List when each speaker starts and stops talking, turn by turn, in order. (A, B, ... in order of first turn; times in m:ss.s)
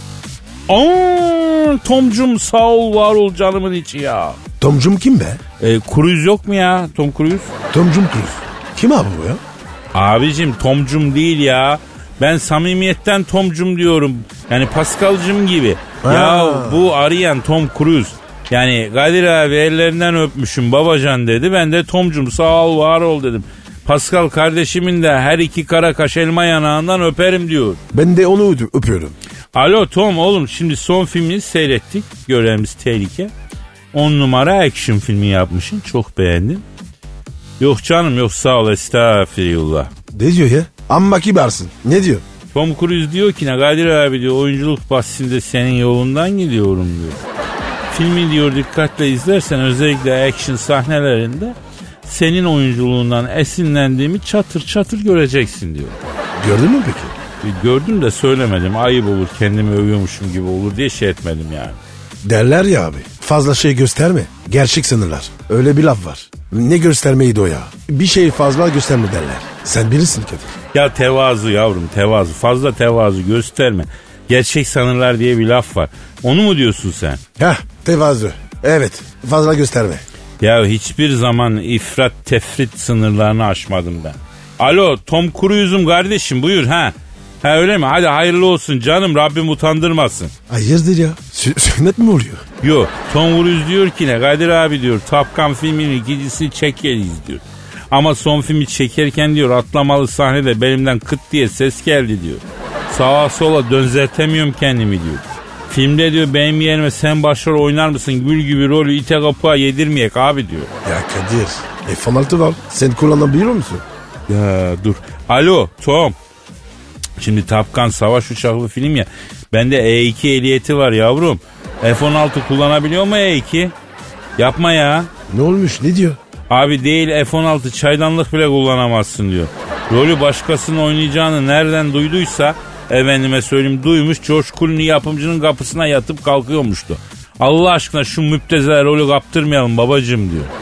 0:00.7-0:04.4 A
0:04.6-0:05.4 B
0:05.6-0:07.5 A
0:07.7-0:09.4 B
0:09.9-0:27.8 A
0:16.0-0:16.9 B
0:27.9-0:29.2 B
0:29.5-0:33.3 A
0:33.9-0:36.6 A
0:37.6-0:39.9 A
0:40.1-0:42.2 B
0:42.5-0:47.2 A
0:47.9-0:56.0 A
0:56.4-0:57.1 B
0:57.4-1:01.8 A
1:02.2-1:10.5 B
1:10.7-1:17.2 A
1:17.4-1:20.0 B
1:20.4-1:30.3 A
1:30.5-1:32.4 B
1:32.6-1:50.7 A
1:50.8-1:53.8 B
1:54.3-1:56.2 A
1:57.2-2:03.7 A
2:04.4-2:05.1 A
2:05.3-2:06.2 B
2:06.5-2:20.5 A